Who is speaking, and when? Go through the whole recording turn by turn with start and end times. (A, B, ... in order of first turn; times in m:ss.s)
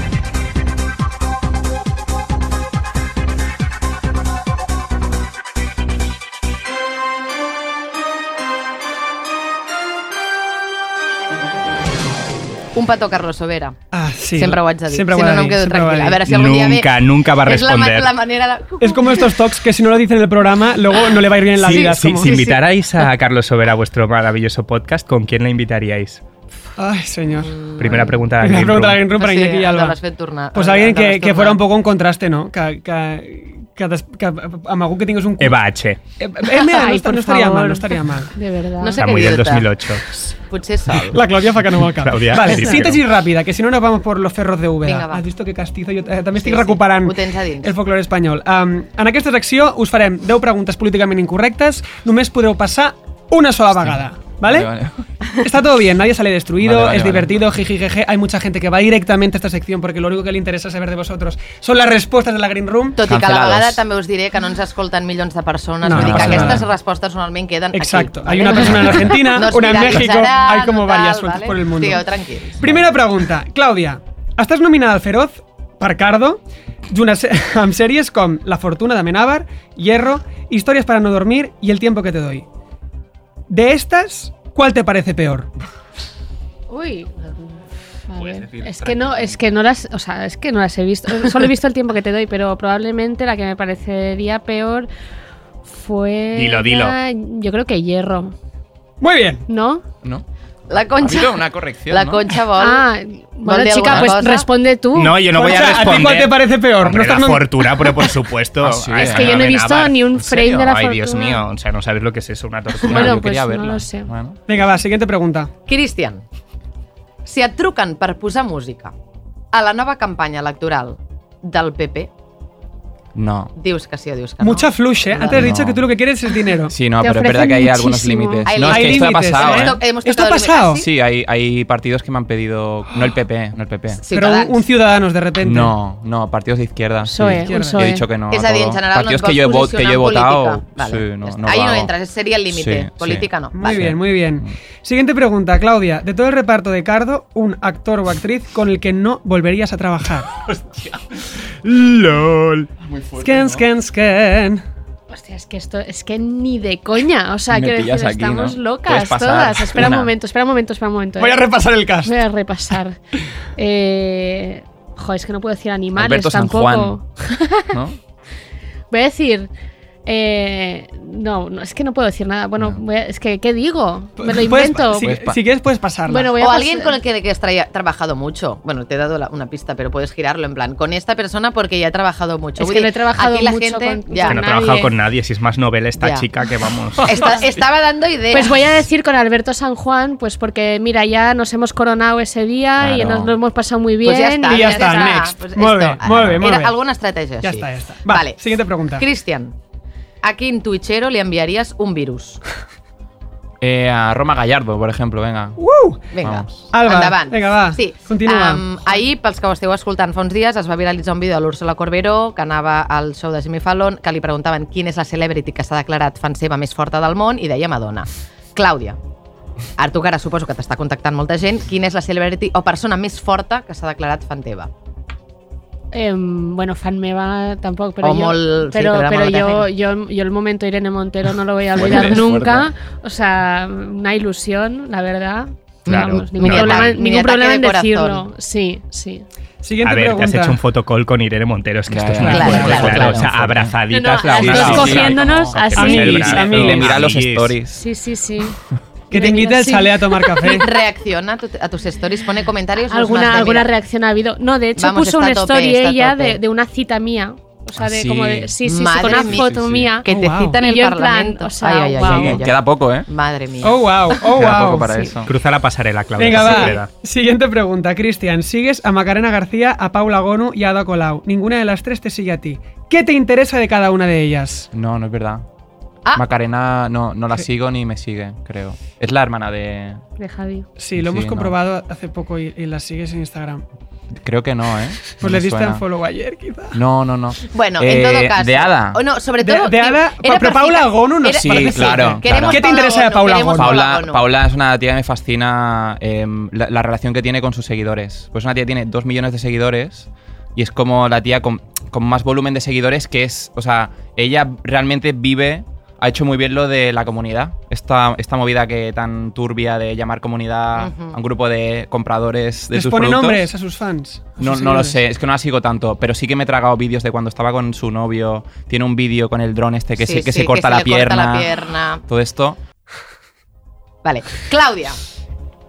0:12.7-0:13.8 A
0:13.9-0:16.2 B
0:14.3-0:19.4 A
0:16.2-0:18.1 C
0:18.8-0:22.3 B
0:21.6-0:26.2 C
0:21.6-0:22.6 A
0:26.8-0:30.0 B
0:27.3-0:28.2 A
0:27.8-0:29.0 C
0:29.1-0:31.6 A
0:30.5-0:35.6 B
0:35.4-0:36.0 C
0:36.2-0:38.3 B
0:36.6-0:39.0 D
0:38.8-0:39.7 A
0:39.0-0:40.3 C
0:40.2-0:41.2 A
0:41.0-0:54.7 B
0:41.9-0:43.0 C
0:44.8-0:45.2 A
0:46.4-0:47.7 A
0:53.8-0:55.0 E
0:55.4-1:03.0 B
0:56.6-0:57.4 E
1:03.0-1:12.6 A
1:03.0-1:03.8 E
1:05.8-1:06.7 B
1:05.9-1:06.7 E
1:07.7-1:12.1 B
1:12.6-1:22.4 B
1:12.6-1:12.9 E
1:23.5-1:25.5 B
1:26.7-1:34.9 D
1:28.2-1:29.4 C
1:35.6-1:38.3 D
1:36.3-1:37.0 C
1:39.0-1:39.4 B
1:39.5-1:39.8 D
1:40.7-1:42.9 A
1:40.9-1:42.3 E
1:42.6-1:45.2 D
1:43.4-1:44.5 A
1:44.9-1:53.2 C
1:45.3-1:48.1 B
1:48.6-1:49.5 E
1:49.0-1:51.4 D
1:50.2-1:50.7 E
1:52.8-1:54.4 E
1:52.9-1:54.1 D
1:54.5-1:55.5 B
1:55.7-1:56.2 A
1:57.2-1:58.9 A
1:59.5-2:02.1 A
2:03.1-2:03.5 E
2:03.6-2:05.6 A
2:04.4-2:06.8 B
2:05.3-2:05.8 E
2:06.7-2:09.8 E
2:07.0-2:08.5 D
2:08.4-2:10.9 A
2:08.6-2:10.8 B
2:10.7-2:14.0 E
2:14.0-2:14.6 A
2:14.1-2:15.7 B
2:15.4-2:21.9 E
2:17.0-2:18.0 D
2:17.4-2:17.8 B
2:18.3-2:23.9 A
2:22.5-2:24.5 E
2:23.5-2:30.3 B
2:30.5-2:32.7 C
2:32.8-2:33.6 E
2:33.2-2:34.6 B
2:35.1-2:41.4 D
2:37.5-2:40.1 E
2:41.2-2:42.1 B
2:42.0-2:43.0 D
2:43.5-2:47.7 D
2:45.9-2:47.0 E
2:47.7-2:48.0 E
2:48.9-2:49.5 D
2:50.0-2:55.1 D
2:54.2-2:56.3 B
2:55.0-2:55.4 E
2:56.1-2:57.0 D
2:56.4-3:04.4 A
3:02.6-3:04.9 D
3:04.2-3:07.2 C
3:06.0-3:06.2 A
3:07.0-3:08.6 A
3:08.3-3:15.3 D
3:12.8-3:13.4 E
3:14.0-3:19.5 A
3:14.5-3:16.8 B
3:16.0-3:16.4 E
3:17.4-3:19.0 B
3:20.2-3:22.4 A
3:23.6-3:25.6 E
3:25.6-3:26.1 B
3:26.1-3:39.0 A
3:26.2-3:26.6 E
3:26.7-3:28.6 B
3:39.8-3:44.7 A
3:45.9-3:59.2 D
3:48.0-3:49.7 A
3:51.7-3:52.7 E
3:55.8-3:58.2 A
3:55.9-3:57.0 C
3:59.6-4:00.6 B
3:59.8-4:07.6 C
4:01.9-4:03.8 E
4:02.2-4:03.1 B
4:02.2-4:03.2 A
4:03.9-4:06.4 D
4:04.4-4:05.1 B
4:04.4-4:05.7 E
4:05.7-4:06.9 B
4:06.3-4:07.8 E
4:07.7-4:08.6 D
4:09.1-4:10.7 D
4:09.1-4:10.7 B
4:10.4-4:13.7 A
4:12.9-4:22.4 D
4:14.8-4:16.4 A
4:17.8-4:19.9 E
4:18.6-4:19.5 A
4:20.0-4:24.2 A
4:20.1-4:20.6 B
4:22.0-4:23.1 E
4:23.6-4:25.0 B
4:24.3-4:25.3 E
4:25.2-4:26.9 C
4:26.2-4:34.7 B
4:26.4-4:26.7 A
4:34.7-4:35.4 E
4:36.1-4:40.0 E
4:40.2-4:40.7 D
4:40.8-4:43.6 B
4:40.9-4:41.5 E
4:44.2-4:45.8 E
4:45.0-4:46.8 B
4:46.7-4:49.0 E
4:47.5-4:54.2 A
4:49.4-4:53.8 B
4:51.3-4:52.7 E
4:53.5-5:13.5 E
5:10.7-5:11.1 A
5:12.7-5:15.0 B
5:14.4-5:22.6 E
5:20.0-5:22.0 A
5:24.0-5:25.0 A